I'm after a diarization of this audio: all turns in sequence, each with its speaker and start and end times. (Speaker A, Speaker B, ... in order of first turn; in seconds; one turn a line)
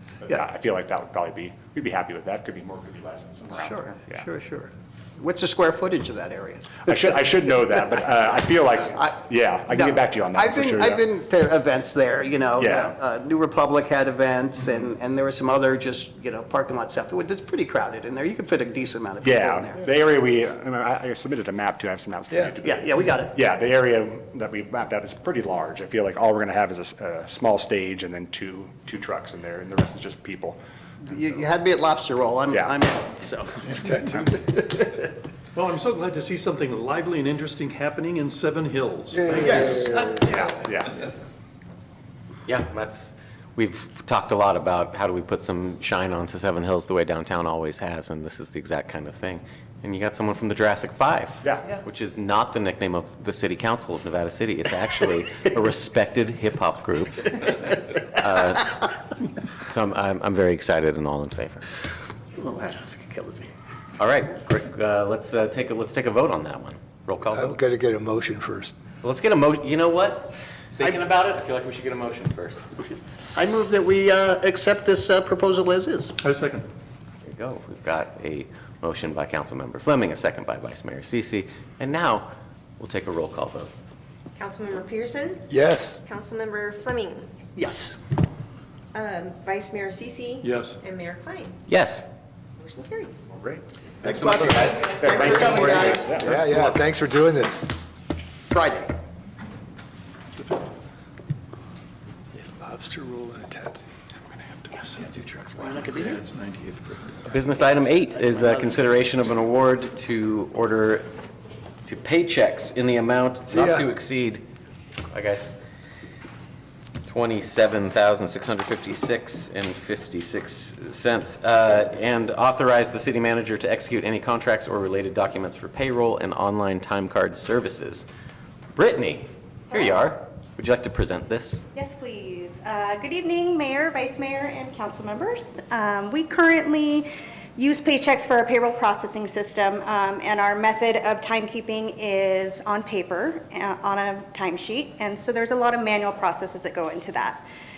Speaker A: 0.2-4.2
Speaker B: 3.5-6.9
Speaker A: 6.8-11.0
Speaker B: 9.7-19.8
Speaker A: 12.6-12.9
Speaker A: 19.2-30.6
Speaker B: 22.6-23.4
Speaker B: 31.0-35.0
Speaker C: 33.7-34.3
Speaker D: 35.5-40.1
Speaker C: 39.1-40.2
Speaker B: 39.4-39.8
Speaker A: 40.2-41.0
Speaker E: 42.5-58.8
Speaker E: 59.7-61.7
Speaker B: 62.4-63.5
Speaker E: 64.0-67.6
Speaker C: 67.3-68.7
Speaker E: 69.0-72.7
Speaker B: 72.8-76.2
Speaker D: 76.2-76.7
Speaker E: 77.2-83.7
Speaker F: 84.4-85.5
Speaker C: 85.5-86.0
Speaker F: 86.0-87.3
Speaker B: 87.6-88.0
Speaker F: 88.9-91.5
Speaker D: 90.4-90.8
Speaker E: 91.7-92.0
Speaker F: 92.6-93.2
Speaker A: 93.3-93.6
Speaker B: 94.0-96.5
Speaker E: 94.0-96.1
Speaker A: 95.0-96.3
Speaker C: 96.1-97.7
Speaker B: 98.5-98.9
Speaker C: 102.3-103.8
Speaker D: 104.8-107.2
Speaker E: 107.2-111.1
Speaker B: 107.8-108.8
Speaker E: 111.8-114.4
Speaker C: 113.5-113.8
Speaker E: 115.1-115.5
Speaker E: 117.0-128.1
Speaker E: 128.8-131.6
Speaker G: 131.7-147.4